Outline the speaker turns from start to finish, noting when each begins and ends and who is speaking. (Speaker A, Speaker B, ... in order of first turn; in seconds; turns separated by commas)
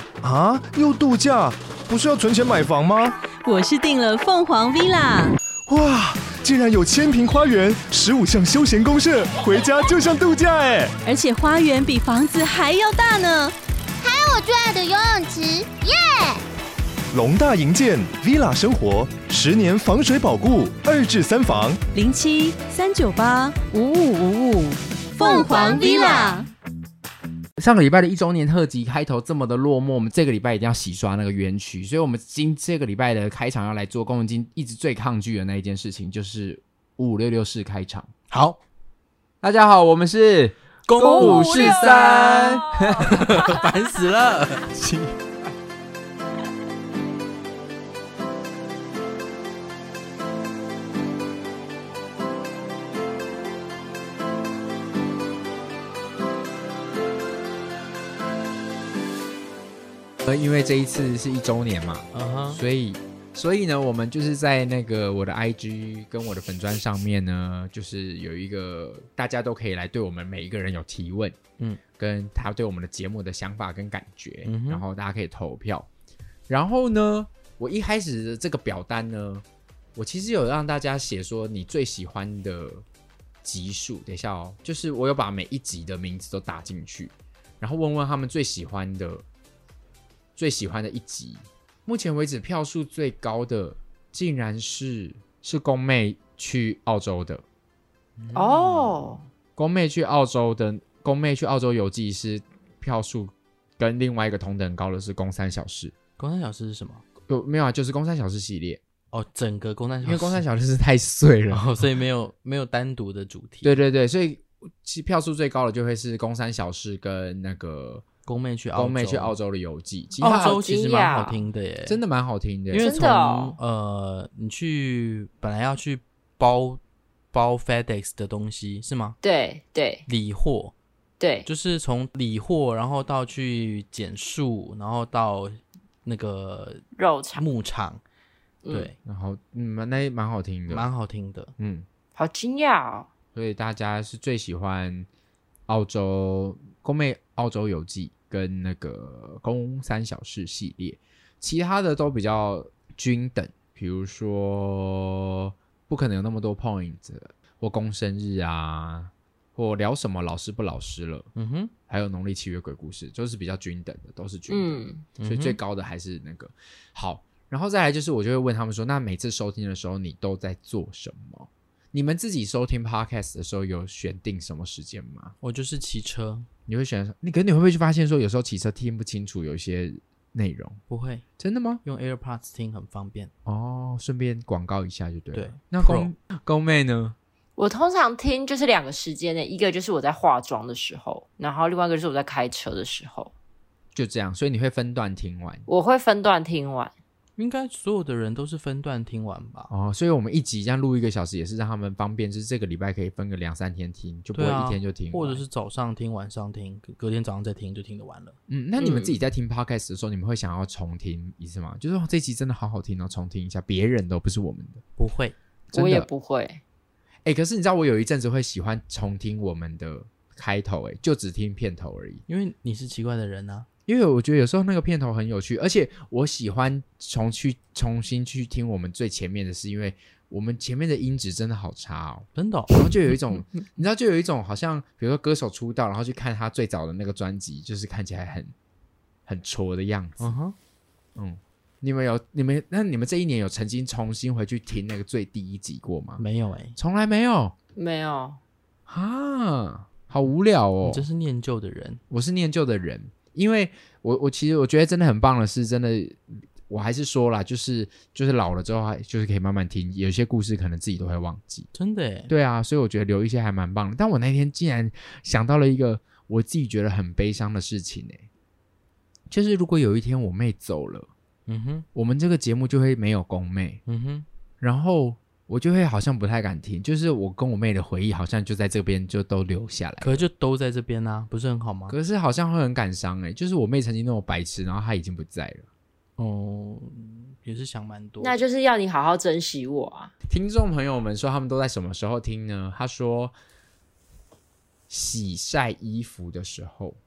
Speaker A: 0.2-3.2, Speaker B: 3.4-5.4, Speaker A: 5.7-10.9, Speaker B: 11.1-13.5, Speaker C: 14.0-16.4, Speaker A: 17.1-21.8, Speaker B: 21.9-26.5, Speaker C: 25.2-26.4, Speaker D: 27.6-38.1, Speaker E: 38.3-38.6, Speaker D: 39.4-43.3, Speaker E: 40.9-42.1, Speaker F: 41.0-43.1, Speaker E: 43.0-44.7, Speaker D: 44.7-45.2, Speaker D: 60.2-71.4, Speaker E: 62.1-62.6, Speaker D: 72.0-75.9, Speaker E: 74.5-74.8, Speaker D: 76.5-82.8, Speaker D: 83.4-89.3, Speaker D: 90.4-97.4, Speaker E: 98.2-99.2, Speaker F: 98.3-99.2, Speaker D: 99.6-106.0, Speaker E: 106.2-107.0, Speaker D: 107.3-108.8, Speaker E: 109.1-110.4, Speaker D: 110.0-111.7, Speaker E: 111.5-113.8, Speaker D: 113.6-118.0, Speaker E: 118.3-119.4, Speaker D: 118.8-120.6, Speaker E: 120.2-122.0, Speaker F: 120.4-121.5, Speaker D: 121.9-122.9, Speaker E: 122.7-126.8, Speaker F: 122.8-123.6, Speaker E: 127.3-129.2, Speaker F: 129.2-130.1, Speaker E: 130.1-130.7, Speaker F: 131.2-131.5, Speaker E: 131.5-136.8, Speaker F: 137.0-137.4, Speaker E: 137.4-138.0, Speaker F: 138.6-138.9, Speaker D: 139.1-140.9, Speaker E: 140.7-141.5, Speaker D: 141.6-141.9, Speaker F: 142.2-143.1, Speaker D: 143.3-145.1, Speaker D: 145.7-161.3, Speaker E: 161.4-161.7, Speaker D: 161.9-175.3, Speaker F: 164.5-165.1, Speaker E: 165.2-165.6, Speaker E: 175.4-176.5, Speaker D: 176.7-180.8, Speaker E: 180.9-181.2, Speaker D: 181.4-181.8, Speaker E: 181.8-183.3, Speaker D: 183.5-187.2, Speaker E: 185.3-186.1, Speaker F: 187.6-193.3, Speaker D: 193.9-195.7, Speaker F: 195.7-196.9, Speaker E: 197.4-199.7, Speaker D: 199.7-205.4, Speaker E: 204.3-208.4, Speaker D: 208.5-214.8, Speaker F: 208.8-209.2, Speaker E: 215.0-215.3, Speaker D: 215.7-216.1, Speaker F: 215.7-216.6, Speaker D: 217.2-222.2, Speaker E: 222.3-223.7, Speaker D: 223.9-238.5, Speaker E: 232.3-232.7, Speaker D: 239.3-240.3, Speaker E: 240.2-240.6, Speaker D: 241.2-246.2, Speaker E: 246.2-246.8, Speaker D: 246.8-247.6, Speaker F: 247.8-248.4, Speaker D: 248.9-251.1, Speaker E: 250.8-252.0, Speaker D: 252.1-261.7, Speaker E: 261.7-262.3, Speaker D: 262.3-268.2, Speaker D: 269.3-271.1, Speaker E: 271.5-271.9, Speaker D: 271.9-273.8, Speaker E: 273.9-274.3, Speaker D: 274.6-280.3, Speaker E: 280.0-282.0, Speaker D: 281.9-285.7, Speaker E: 286.2-288.4, Speaker F: 288.2-290.1, Speaker D: 290.3-293.4, Speaker D: 294.9-297.0